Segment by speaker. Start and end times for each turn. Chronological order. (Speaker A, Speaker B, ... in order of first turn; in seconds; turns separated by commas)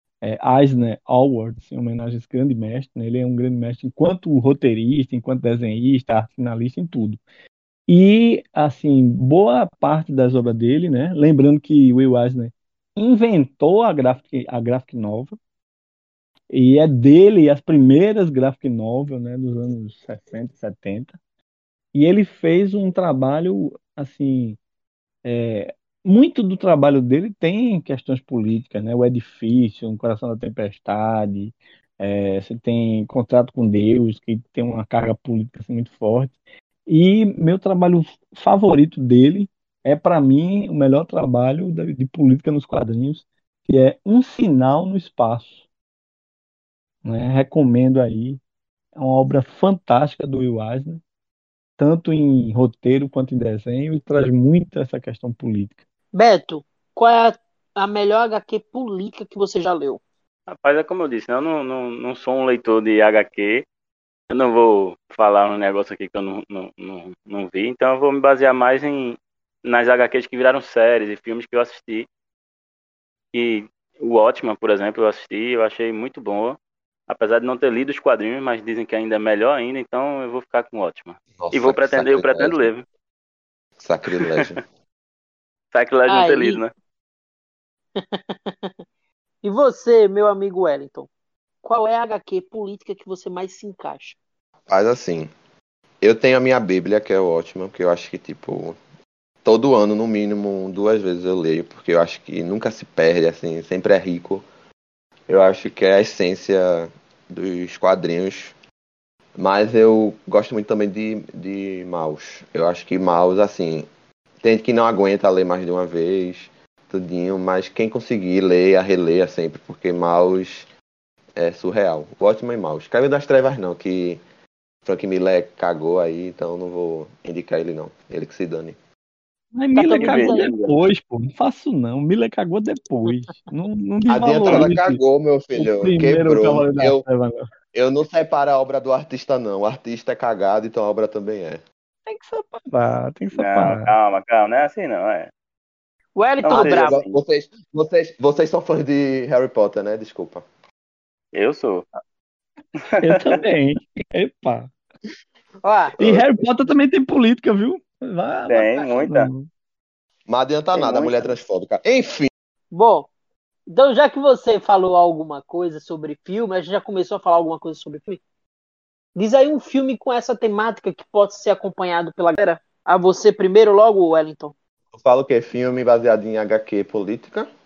Speaker A: 0.2-7.2, Speaker A: 7.9-15.4, Speaker A: 16.5-21.2, Speaker A: 21.9-24.6, Speaker A: 25.2-45.5, Speaker A: 47.0-48.4, Speaker A: 49.0-51.0, Speaker A: 51.8-55.8, Speaker B: 56.1-60.0, Speaker C: 60.5-63.7, Speaker C: 64.3-72.1, Speaker C: 73.3-82.8, Speaker D: 81.4-82.7, Speaker D: 83.8-84.6, Speaker C: 85.7-86.7, Speaker B: 86.1-86.6, Speaker B: 88.0-88.7, Speaker B: 89.4-91.1, Speaker B: 91.6-94.2, Speaker D: 94.7-95.3, Speaker D: 96.0-98.8, Speaker D: 99.4-104.5, Speaker D: 105.3-108.5, Speaker D: 109.4-113.9, Speaker D: 114.4-120.7, Speaker D: 121.4-124.2, Speaker D: 124.8-128.8, Speaker A: 129.6-135.0, Speaker B: 129.8-130.5, Speaker C: 129.9-130.8, Speaker D: 134.1-137.0, Speaker A: 135.6-137.4, Speaker D: 137.7-141.6, Speaker A: 142.1-143.9, Speaker C: 143.3-145.3, Speaker B: 146.2-147.0, Speaker C: 146.4-147.2, Speaker D: 146.5-150.4, Speaker C: 151.3-151.9, Speaker C: 152.8-153.4, Speaker A: 153.0-154.7, Speaker B: 155.6-155.9, Speaker D: 156.0-156.7, Speaker A: 156.0-159.5, Speaker C: 158.5-159.3, Speaker D: 160.3-162.3, Speaker C: 160.7-161.3, Speaker B: 162.7-163.1, Speaker B: 163.7-168.2, Speaker B: 169.2-174.5, Speaker D: 174.9-177.5